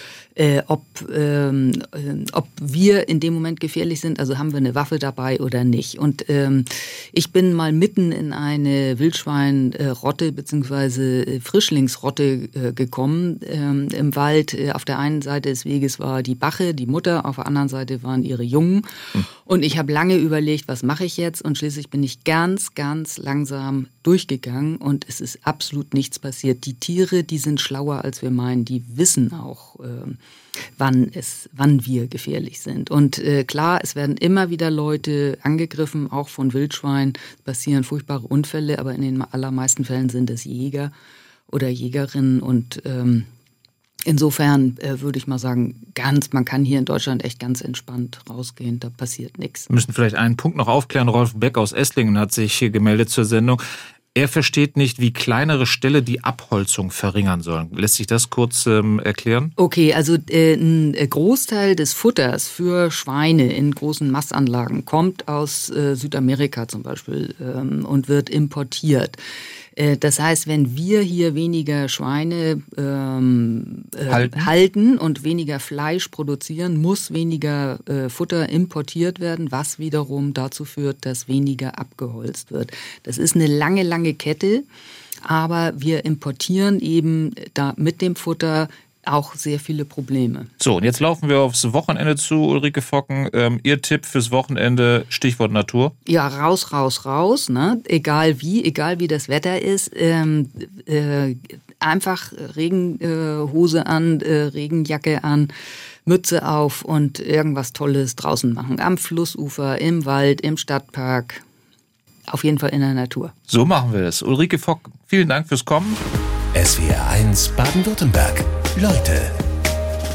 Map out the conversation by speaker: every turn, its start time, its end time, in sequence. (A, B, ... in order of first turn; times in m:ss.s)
0:00.4-0:30.2 A
0:30.8-0:40.9 A
0:41.5-0:43.3 A
0:44.1-0:49.7 A
0:49.7-0:53.6 B
0:54.2-0:59.5 B
0:59.6-1:09.2 A
1:09.8-1:24.7 A
1:14.1-1:14.5 B
1:25.2-1:30.5 A
1:30.6-1:35.9 B
1:36.1-1:45.5 A
1:46.1-1:51.4 A
1:52.3-1:53.3 A
1:53.5-1:56.0 B
1:56.5-1:59.4 C